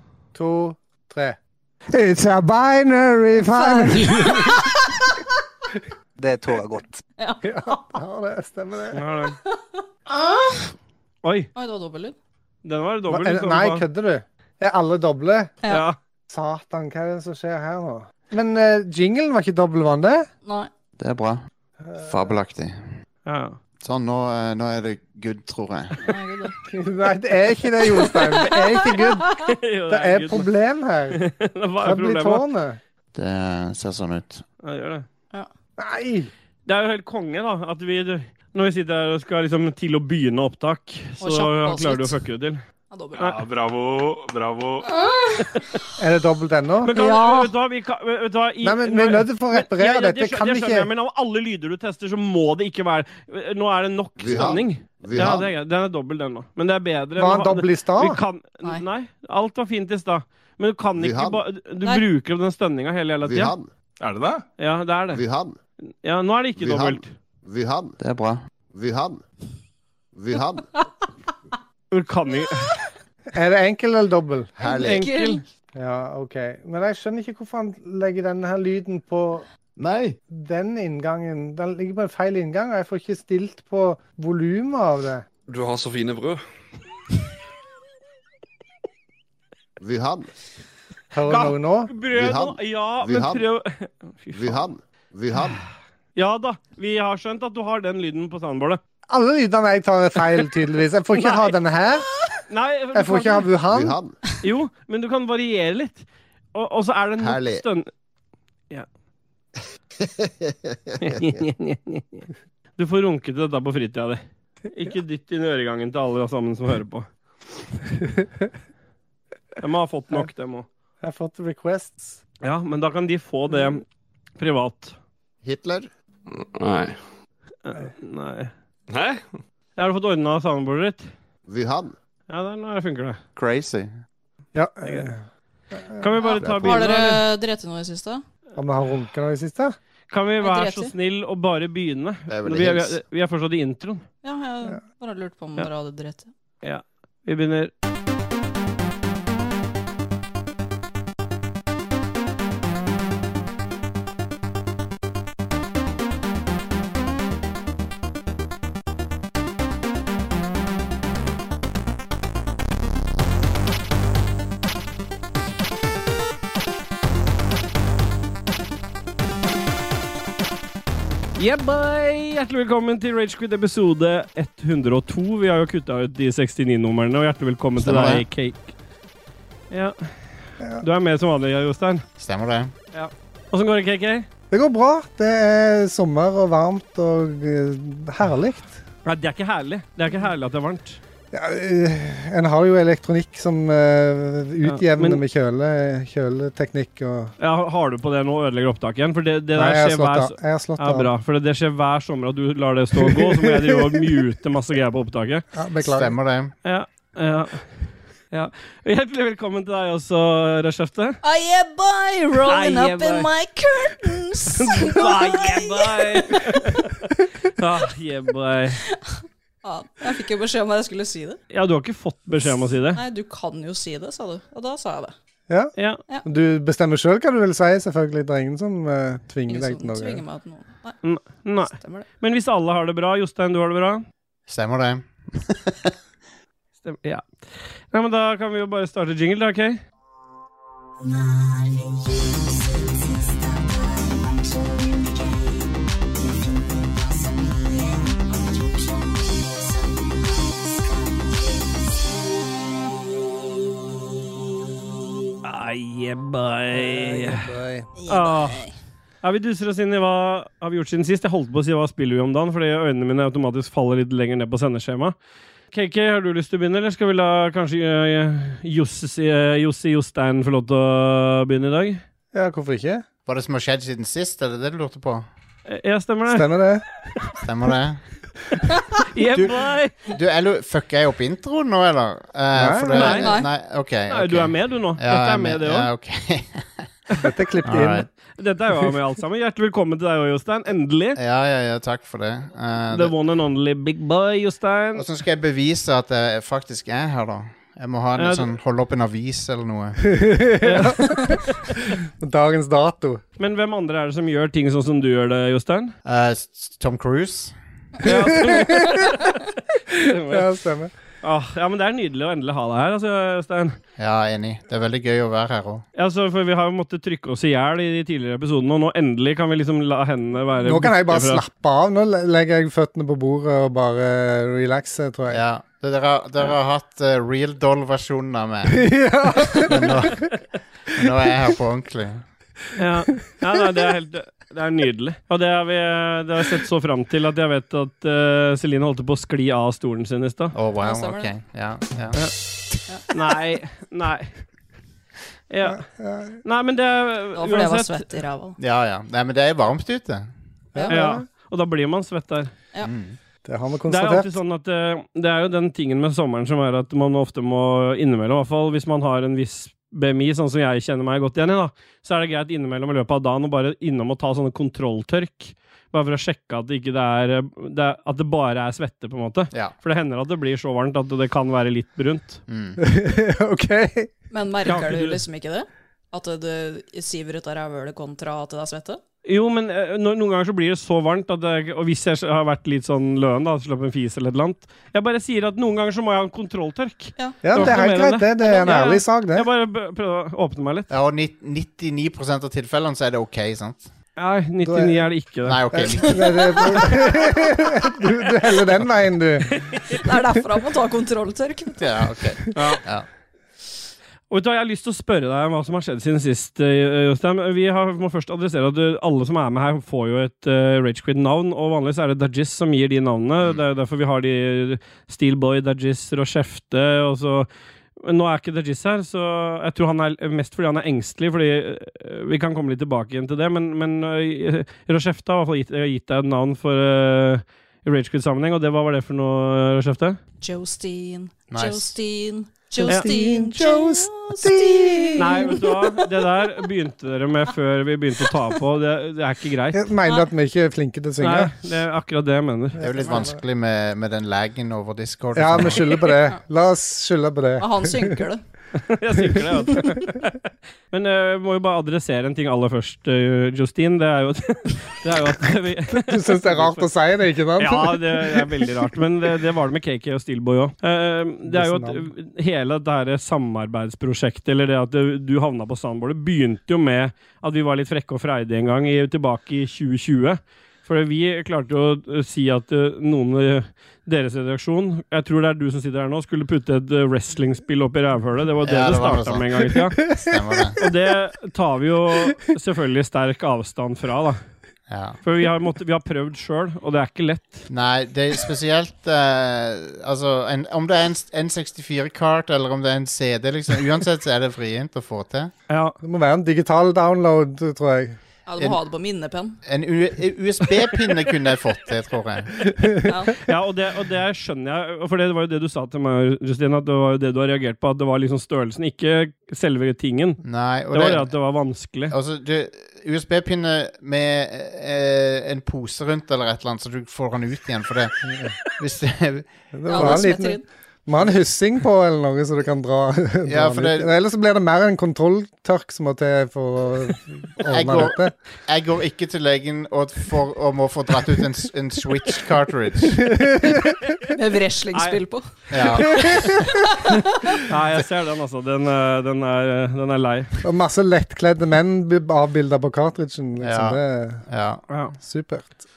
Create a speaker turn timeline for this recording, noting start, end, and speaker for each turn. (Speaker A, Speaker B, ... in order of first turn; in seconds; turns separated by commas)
Speaker A: 0.3-1.4, Speaker A: 1.9-4.7, Speaker B: 3.5-4.7, Speaker A: 6.2-9.1, Speaker B: 7.2-7.8, Speaker C: 8.9-9.4, Speaker B: 10.1-10.7, Speaker C: 11.2-11.5, Speaker B: 11.5-12.1, Speaker C: 12.6-13.8, Speaker A: 13.1-15.5, Speaker C: 15.7-15.9, Speaker A: 16.3-20.3, Speaker D: 21.0-21.4, Speaker A: 21.8-22.1, Speaker D: 22.0-22.9, Speaker C: 23.2-23.6, Speaker D: 23.8-26.0, Speaker B: 26.0-26.5, Speaker A: 26.7-31.2, Speaker B: 28.0-29.4, Speaker C: 29.5-30.5, Speaker C: 31.1-32.4, Speaker A: 31.8-32.8, Speaker D: 33.1-34.4, Speaker C: 34.6-35.0, Speaker A: 35.8-36.3, Speaker C: 36.6-42.6, Speaker B: 41.2-42.2, Speaker B: 42.9-43.4, Speaker E: 43.2-44.9, Speaker B: 44.9-45.4, Speaker A: 46.0-47.0, Speaker C: 46.8-63.5, Speaker B: 46.9-47.5, Speaker A: 48.6-50.9, Speaker F: 54.2-55.5, Speaker A: 57.2-58.2, Speaker F: 61.0-61.4, Speaker F: 63.2-63.7, Speaker E: 64.0-64.4, Speaker C: 64.6-65.2, Speaker F: 65.1-65.6, Speaker C: 66.0-67.1, Speaker F: 66.6-68.0, Speaker D: 68.0-68.4, Speaker F: 68.7-69.2, Speaker F: 70.1-70.7, Speaker C: 71.9-72.8, Speaker A: 73.3-74.5, Speaker F: 74.6-75.1, Speaker B: 74.6-75.4, Speaker C: 74.8-75.4, Speaker A: 75.7-79.5, Speaker A: 80.3-85.2, Speaker G: 85.5-86.4, Speaker F: 89.8-90.3, Speaker A: 91.1-91.9, Speaker C: 91.2-94.6, Speaker F: 92.1-93.5, Speaker F: 94.3-95.6, Speaker C: 95.3-95.6, Speaker C: 96.2-98.8, Speaker A: 99.1-102.0, Speaker C: 101.1-101.5, Speaker C: 102.5-103.5, Speaker A: 102.9-104.0, Speaker F: 103.7-104.2, Speaker C: 104.4-107.9, Speaker F: 107.2-107.6, Speaker F: 110.0-111.2, Speaker C: 111.0-117.1, Speaker C: 119.6-120.7, Speaker A: 121.0-122.2, Speaker C: 122.4-123.8, Speaker C: 124.4-124.9, Speaker F: 125.4-125.9, Speaker G: 126.3-127.0, Speaker C: 127.6-128.5, Speaker G: 128.9-129.4, Speaker C: 129.8-131.0, Speaker F: 131.5-131.9, Speaker C: 132.3-133.2, Speaker D: 133.3-133.9, Speaker A: 134.5-136.1, Speaker C: 136.0-137.2, Speaker B: 136.2-138.2, Speaker F: 136.4-136.9, Speaker A: 138.6-139.8, Speaker C: 140.1-144.0, Speaker B: 140.4-140.9, Speaker F: 142.3-143.0, Speaker B: 144.2-146.3, Speaker C: 146.6-147.7, Speaker C: 171.4-178.7, Speaker D: 177.8-178.2, Speaker C: 179.7-180.1, Speaker C: 180.8-182.0, Speaker D: 182.2-182.7, Speaker C: 182.9-184.2, Speaker A: 184.5-188.8, Speaker C: 189.0-191.0, Speaker A: 191.3-197.3, Speaker C: 194.6-195.2, Speaker C: 197.4-205.4, Speaker A: 199.5-201.1, Speaker A: 203.1-204.0, Speaker A: 205.5-206.1, Speaker D: 205.8-206.5, Speaker C: 206.6-207.7, Speaker C: 208.3-211.2, Speaker B: 211.2-216.8, Speaker C: 212.4-213.3, Speaker C: 214.5-218.8, Speaker B: 218.9-221.4, Speaker C: 221.5-223.0, Speaker B: 222.9-225.1, Speaker A: 225.5-225.7, Speaker A: 226.2-230.2, Speaker B: 229.5-232.1, Speaker C: 231.0-234.0, Speaker D: 234.5-235.9, Speaker C: 236.8-239.8, Speaker C: 255.4-257.4, Speaker A: 256.7-257.9, Speaker B: 258.0-258.7, Speaker C: 258.1-258.6, Speaker C: 259.2-265.1, Speaker C: 265.7-272.0, Speaker A: 272.3-273.0, Speaker D: 273.2-275.2, Speaker C: 275.7-276.7, Speaker A: 276.3-276.9, Speaker D: 277.4-278.0, Speaker C: 279.1-279.9, Speaker D: 280.0-286.9, Speaker A: 282.5-283.1, Speaker C: 282.9-283.3, Speaker B: 282.9-283.5, Speaker C: 284.1-285.9, Speaker A: 287.2-288.1, Speaker D: 287.6-288.1, Speaker C: 288.4-291.2, Speaker D: 291.2-293.1, Speaker C: 292.9-295.0, Speaker D: 294.9-300.0, Speaker C: 298.1-298.5, Speaker A: 300.0-303.2, Speaker C: 300.6-301.2, Speaker C: 303.4-305.9, Speaker D: 306.0-307.5, Speaker C: 308.0-309.3, Speaker A: 308.1-309.0, Speaker A: 309.9-310.9, Speaker C: 309.9-310.5, Speaker C: 311.2-313.8, Speaker D: 314.0-315.8, Speaker C: 315.9-321.4, Speaker A: 320.6-325.4, Speaker D: 325.3-328.9, Speaker A: 328.7-330.0, Speaker D: 329.4-332.2, Speaker C: 332.7-340.5, Speaker D: 340.5-342.2, Speaker B: 340.8-341.3, Speaker C: 343.1-344.3, Speaker C: 345.5-345.8, Speaker A: 345.6-346.4, Speaker C: 346.4-348.1, Speaker B: 347.3-348.6, Speaker D: 348.6-350.3, Speaker A: 350.7-351.2, Speaker B: 350.8-351.0, Speaker C: 350.9-352.5, Speaker D: 352.8-353.2, Speaker A: 353.4-354.4, Speaker C: 353.9-372.4, Speaker D: 372.5-372.8, Speaker A: 372.8-374.1, Speaker B: 374.3-379.0, Speaker C: 374.6-375.2, Speaker C: 379.2-390.9, Speaker A: 387.4-389.5, Speaker D: 390.9-393.9, Speaker C: 394.2-395.6, Speaker A: 394.6-395.1, Speaker D: 395.4-396.5, Speaker A: 395.7-399.6, Speaker B: 395.9-397.3, Speaker C: 399.6-400.0, Speaker B: 400.0-401.9, Speaker D: 401.8-403.1, Speaker C: 402.5-402.8, Speaker C: 404.3-417.5, Speaker C: 418.0-430.2, Speaker B: 430.4-436.0, Speaker D: 431.5-431.9, Speaker A: 432.8-435.6, Speaker C: 435.2-439.8, Speaker A: 439.7-441.6, Speaker C: 441.2-442.8, Speaker A: 442.8-443.4, Speaker D: 442.8-446.1, Speaker A: 445.3-448.2, Speaker B: 447.6-448.4, Speaker C: 448.8-450.4, Speaker C: 450.9-456.9, Speaker A: 455.9-458.8, Speaker C: 457.6-480.0, Speaker A: 461.4-462.1, Speaker D: 478.6-480.8, Speaker C: 480.8-484.4, Speaker D: 484.9-485.2, Speaker C: 485.2-487.7, Speaker D: 487.7-495.5, Speaker C: 495.7-496.0, Speaker A: 496.0-498.2, Speaker B: 498.5-499.6, Speaker D: 499.6-502.6, Speaker B: 503.0-503.4, Speaker C: 503.4-512.1, Speaker D: 510.4-511.3, Speaker D: 512.1-520.2, Speaker A: 518.2-518.5, Speaker A: 519.7-528.3, Speaker B: 519.9-520.6, Speaker D: 523.5-524.1, Speaker D: 527.7-533.3, Speaker A: 533.2-534.0, Speaker B: 534.3-535.4, Speaker D: 535.7-536.7, Speaker C: 535.8-536.0, Speaker C: 537.6-540.5, Speaker A: 540.6-544.4, Speaker D: 543.6-544.8, Speaker A: 545.2-545.8